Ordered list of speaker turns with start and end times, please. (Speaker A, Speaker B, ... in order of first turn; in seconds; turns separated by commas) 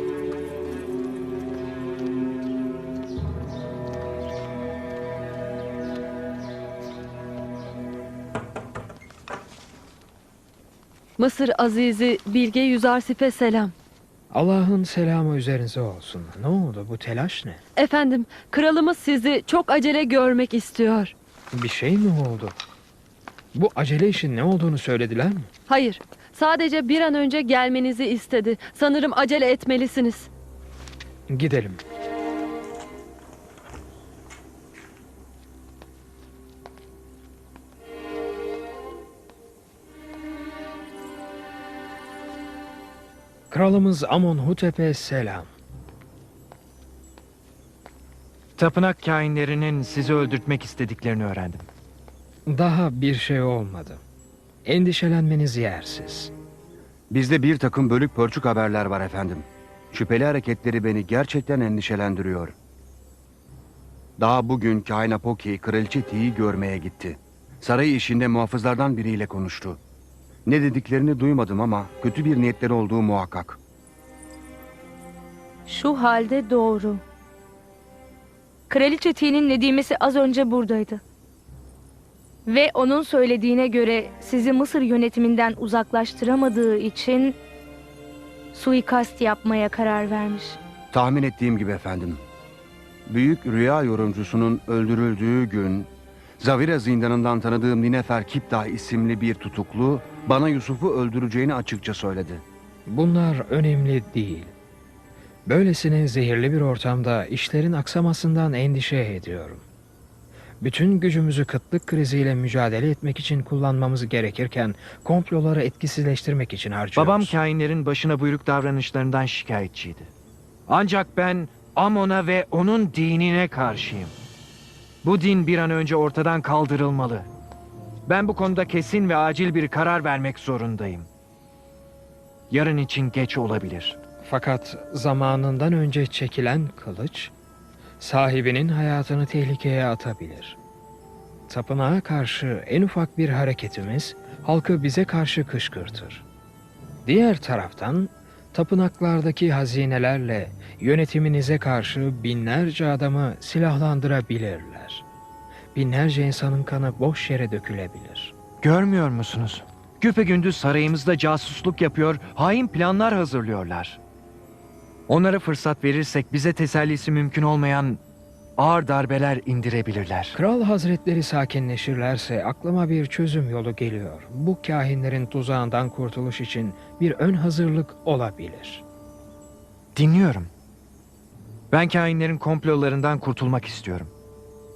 Speaker A: 11.2-13.7, Speaker B: 14.3-17.6, Speaker A: 17.8-21.1, Speaker B: 21.5-22.6, Speaker B: 23.6-25.5, Speaker A: 25.7-30.3, Speaker B: 31.3-31.8, Speaker B: 43.5-45.5, Speaker C: 48.6-51.7, Speaker B: 52.5-54.0, Speaker B: 54.6-56.3, Speaker D: 57.1-62.5, Speaker D: 64.2-69.8, Speaker D: 70.5-73.6, Speaker E: 75.7-77.0, Speaker E: 78.7-81.0, Speaker E: 82.5-87.4, Speaker E: 88.5-90.6, Speaker D: 90.9-92.2, Speaker D: 93.1-102.4, Speaker B: 102.9-104.5, Speaker B: 105.5-109.6, Speaker B: 110.6-117.3, Speaker C: 117.0-120.1, Speaker C: 120.7-124.1, Speaker C: 125.0-127.3, Speaker C: 128.1-131.1, Speaker C: 132.5-134.0, Speaker B: 134.2-137.3, Speaker B: 138.0-140.6, Speaker B: 141.5-146.2, Speaker B: 147.1-155.1, Speaker B: 155.7-158.3, Speaker C: 158.6-164.0, Speaker C: 165.1-168.0, Speaker C: 168.6-170.4, Speaker B: 170.3-178.8, Speaker C: 179.9-180.5, Speaker C: 181.7-184.1